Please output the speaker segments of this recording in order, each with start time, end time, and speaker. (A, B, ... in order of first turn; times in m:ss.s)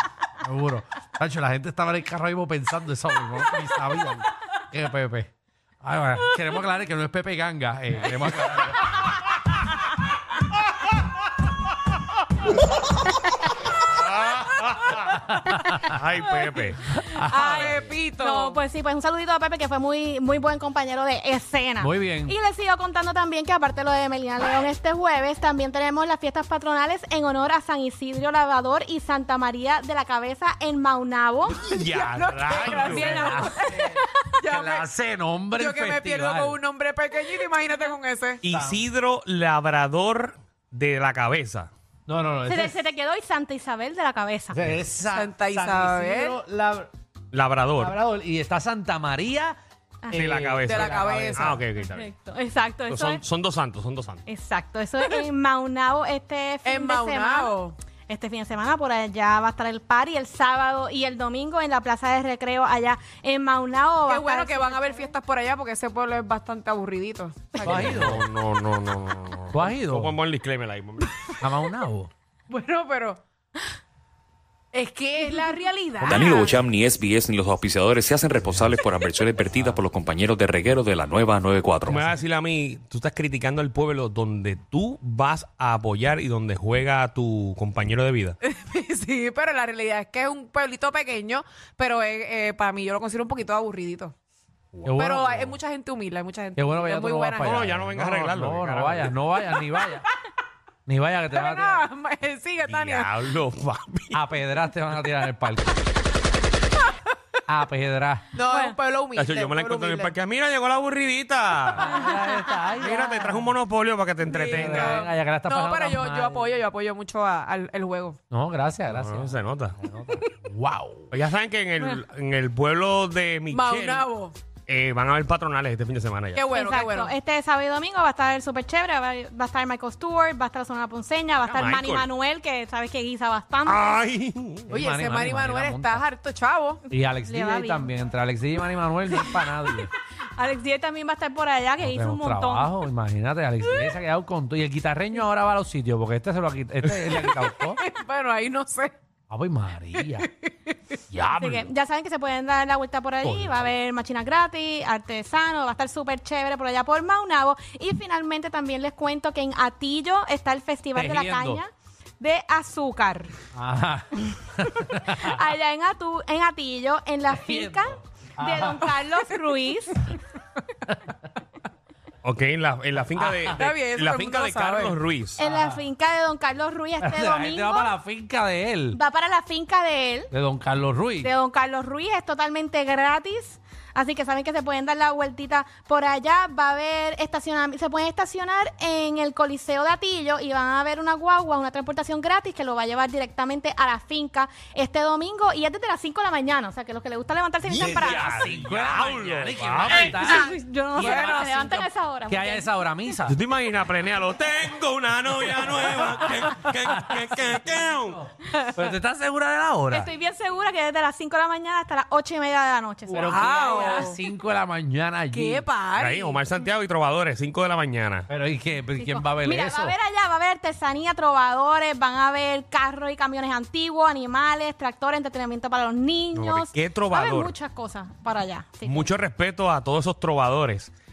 0:00.3-0:05.3 A
0:05.8-0:09.1 A
0:13.9-0:15.2 B
0:15.2-0:16.0 A
0:15.8-0:16.8 B
0:16.9-0:17.8 A
0:17.3-0:31.6 C
0:17.3-0:18.6 D
0:21.8-0:22.4 A
0:31.6-0:34.9 D
0:31.7-0:33.2 B
0:32.7-0:34.1 C
0:32.8-0:33.6 A
0:34.4-0:36.6 A
0:35.6-0:38.4 D
0:38.4-0:41.7 B
0:38.5-0:38.8 A
0:42.1-0:42.8 A
0:42.5-0:44.6 C
0:44.5-0:46.9 A
0:45.1-0:46.4 D
0:47.3-0:48.0 B
0:47.8-0:49.6 A
0:50.1-0:51.6 A
0:50.1-0:52.1 B
0:50.6-0:51.6 D
0:51.8-0:53.2 C
0:52.9-0:54.2 B
0:54.3-0:57.6 C
0:56.6-0:57.8 D
0:58.1-1:05.1 C
1:04.1-1:08.2 D
1:07.6-1:07.8 C
1:07.6-1:08.2 A
1:07.8-1:11.2 B
1:09.5-1:10.2 A
1:11.4-1:12.1 A
1:12.5-1:13.2 D
1:14.7-1:16.6 D
1:16.0-1:22.1 E
1:16.2-1:16.5 C
1:21.9-1:28.4 B
1:28.4-1:34.1 D
1:34.7-1:35.6 B
1:34.8-1:35.3 A
1:35.0-1:37.6 D
1:36.6-1:40.1 A
1:37.4-1:39.1 B
1:40.9-1:41.9 A
1:41.3-1:43.2 D
1:42.6-1:44.2 B
1:44.1-1:45.8 A
1:47.5-1:48.3 A
1:48.3-1:50.1 D
1:48.5-1:48.8 C
1:49.2-1:52.0 B
1:51.8-1:53.5 A
1:52.8-1:55.1 B
1:54.2-1:58.2 D
1:54.4-1:56.5 A
1:58.3-2:01.1 A
1:58.9-1:59.8 B
2:01.1-2:04.1 B
2:03.5-2:04.4 D
2:04.7-2:06.4 B
2:06.4-2:07.1 D
2:06.5-2:14.0 C
2:11.5-2:12.1 B
2:13.7-2:14.7 B
2:14.7-2:16.1 A
2:14.7-2:16.8 D
2:16.9-2:19.9 A
2:17.0-2:18.0 C
2:20.4-2:22.7 C
2:21.8-2:27.8 A
2:27.1-2:29.0 D
2:29.3-2:30.3 A
2:30.0-2:30.8 D
2:31.1-2:31.7 A
2:31.4-2:43.4 C
2:33.2-2:33.6 A
2:41.0-2:41.6 A
2:43.6-2:45.4 A
2:44.7-2:50.0 C
2:47.3-2:48.9 A
2:52.2-2:55.4 B
2:53.2-2:55.0 D
2:55.4-2:58.0 C
2:55.4-2:55.8 A
2:57.0-2:59.0 A
2:58.9-3:00.3 C
3:00.3-3:01.3 A
3:01.2-3:18.3 C
3:17.7-3:20.2 B
3:17.8-3:23.4 A
3:20.0-3:22.7 C
3:21.0-3:21.5 D
3:23.3-3:28.2 B
3:25.6-3:30.1 A
3:29.9-3:34.1 C
3:33.1-3:35.7 A
3:33.2-3:34.2 D
3:35.3-3:36.5 D
3:36.0-3:38.3 B
3:38.3-3:40.0 A
3:39.0-3:49.1 C
3:46.4-3:47.5 B
3:48.8-3:50.9 B